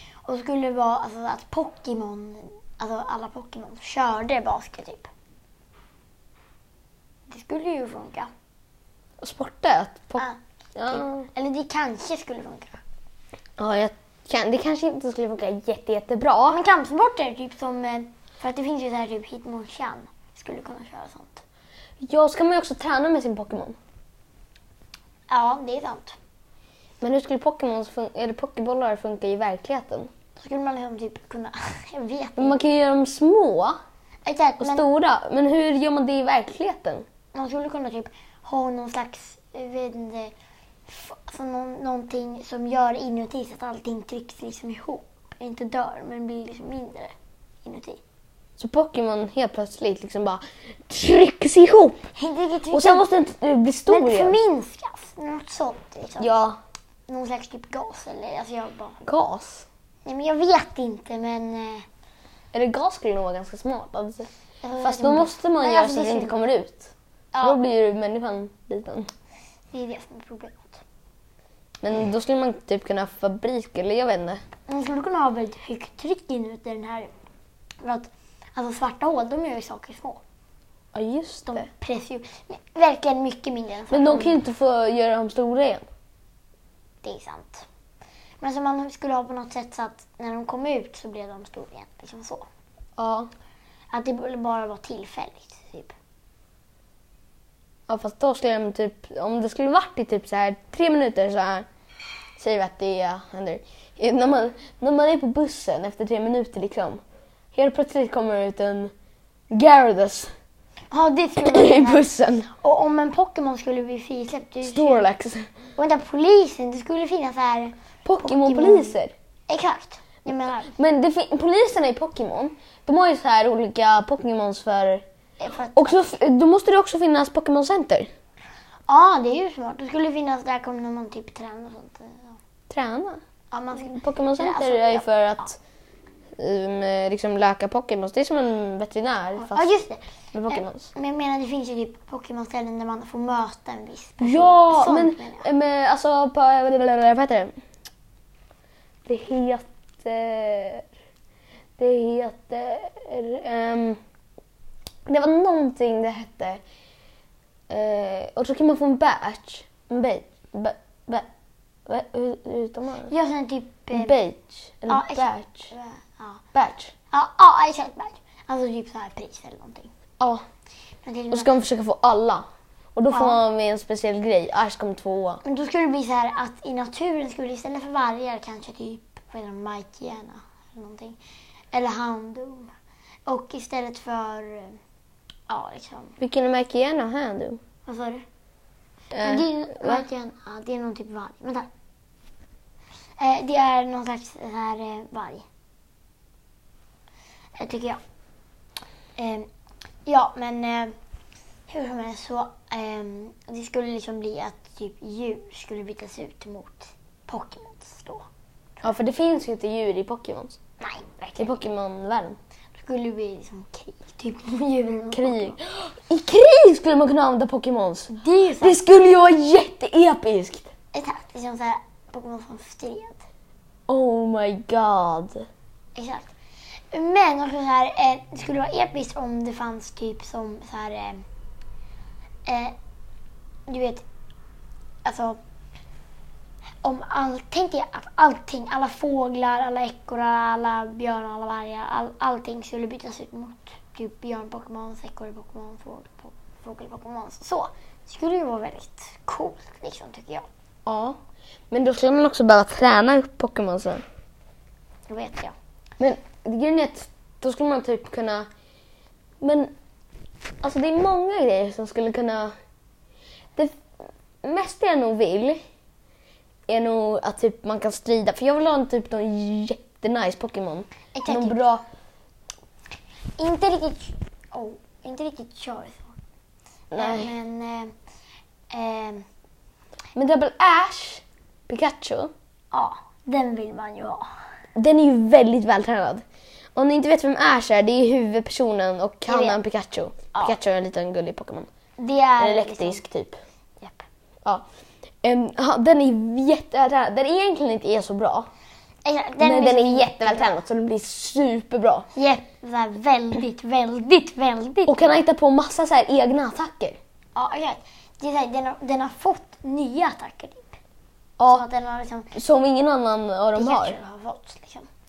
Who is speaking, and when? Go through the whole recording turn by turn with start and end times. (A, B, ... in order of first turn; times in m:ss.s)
0:00.2-0:05.1 A
0:07.3-0:08.3 A
0:09.2-0:10.2 B
0:10.2-0:12.8 A
0:10.8-0:11.3 B
0:13.6-0:16.6 B
0:16.5-0:21.4 A
0:22.0-0:23.8 B
0:25.3-0:26.2 A
0:27.0-0:30.1 B
0:30.4-0:32.6 A
0:32.4-0:33.8 B
0:34.2-0:34.9 A
0:34.6-0:37.0 B
0:37.3-0:40.3 A
0:40.9-0:47.1 A
0:47.6-0:48.0 A
0:48.6-0:52.0 B
0:52.1-0:53.1 A
0:52.7-0:54.4 B
0:53.9-0:56.4 A
0:56.2-0:56.6 B
0:57.1-0:59.0 A
0:59.0-0:59.7 B
1:00.0-1:01.8 A
1:02.5-1:04.3 B
1:04.6-1:06.4 A
1:04.8-1:09.1 B
1:07.3-1:07.6 A
1:09.7-1:10.8 A
1:11.8-1:14.4 B
1:14.7-1:17.1 A
1:17.8-1:20.2 A
1:20.9-1:21.7 B
1:21.5-1:24.4 A
1:23.9-1:25.9 B
1:27.0-1:27.6 A
1:28.4-1:32.4 A
1:33.0-1:33.3 B
1:33.9-1:35.9 A
1:37.9-1:41.7 B
1:42.4-1:47.0 B
1:47.5-1:48.9 B
1:49.5-1:50.3 B
1:50.9-1:55.0 A
1:51.4-1:52.5 B
1:54.6-1:55.5 B
1:55.8-1:59.0 A
1:58.0-1:59.1 B
1:59.5-2:00.7 A
2:00.7-2:05.0 B
2:05.4-2:06.0 A
2:05.7-2:08.1 B
2:08.9-2:12.4 A
2:12.7-2:13.2 B
2:13.5-2:15.4 A
2:13.7-2:15.6 B
2:16.4-2:19.8 B
2:19.4-2:25.5 A
2:20.3-2:20.9 B
2:24.2-2:27.5 B
2:29.0-2:30.9 B
2:31.8-2:34.0 B
2:35.0-2:36.6 B
2:37.7-2:41.3 B
2:41.9-2:43.1 B
2:43.1-2:44.2 A
2:43.9-2:45.7 B
2:44.9-2:46.4 A
2:46.5-2:46.9 B
2:47.1-2:49.9 A
2:51.0-2:51.5 A
2:51.3-2:55.4 B
2:53.1-2:53.4 A
2:55.4-3:01.2 A
3:01.7-3:02.7 A
3:03.2-3:04.8 A
3:05.5-3:06.2 A
3:06.2-3:07.6 B
3:07.8-3:08.2 A
3:09.1-3:10.0 B
3:09.2-3:11.7 A
3:13.2-3:15.4 A
3:17.6-3:18.0 A
3:19.2-3:19.5 A
3:20.0-3:20.9 A
3:21.7-3:28.3 A
3:28.8-3:30.6 B
3:30.8-3:31.5 A
3:31.4-3:32.4 B
3:32.8-3:35.6 A
3:35.1-3:40.7 B
3:38.1-3:38.8 A
3:40.9-3:43.2 A
3:43.9-3:45.4 B
3:45.9-3:46.3 A
3:46.9-3:51.2 A
3:52.4-3:52.8 A
3:53.7-3:54.0 A
3:55.0-3:55.4 A
3:56.8-4:10.5 A
4:10.8-4:11.2 B
4:11.7-4:14.0 B
4:15.1-4:15.6 A
4:16.0-4:18.5 B
4:19.4-4:19.7 B
4:20.6-4:22.5 B
4:24.4-4:25.6 B
4:26.7-4:31.8 B
4:31.1-4:31.7 A
4:33.4-4:36.2 A
4:36.9-4:37.3 B
4:37.0-4:37.9 A
4:38.7-4:39.2 A
4:40.1-4:42.3 B
4:42.7-4:44.2 A
4:44.8-4:46.2 B
4:46.8-4:51.7 B
4:49.3-4:49.6 A
4:52.0-4:53.0 A
4:52.4-4:53.4 B
4:53.8-4:54.1 A
4:55.2-4:58.5 B
4:59.0-5:00.6 A
4:59.4-5:02.1 B
5:02.1-5:05.2 A
5:04.8-5:07.0 B
5:07.3-5:10.8 A
5:11.4-5:11.6 B
5:11.5-5:12.3 A
5:12.3-5:14.0 B
5:13.5-5:14.9 A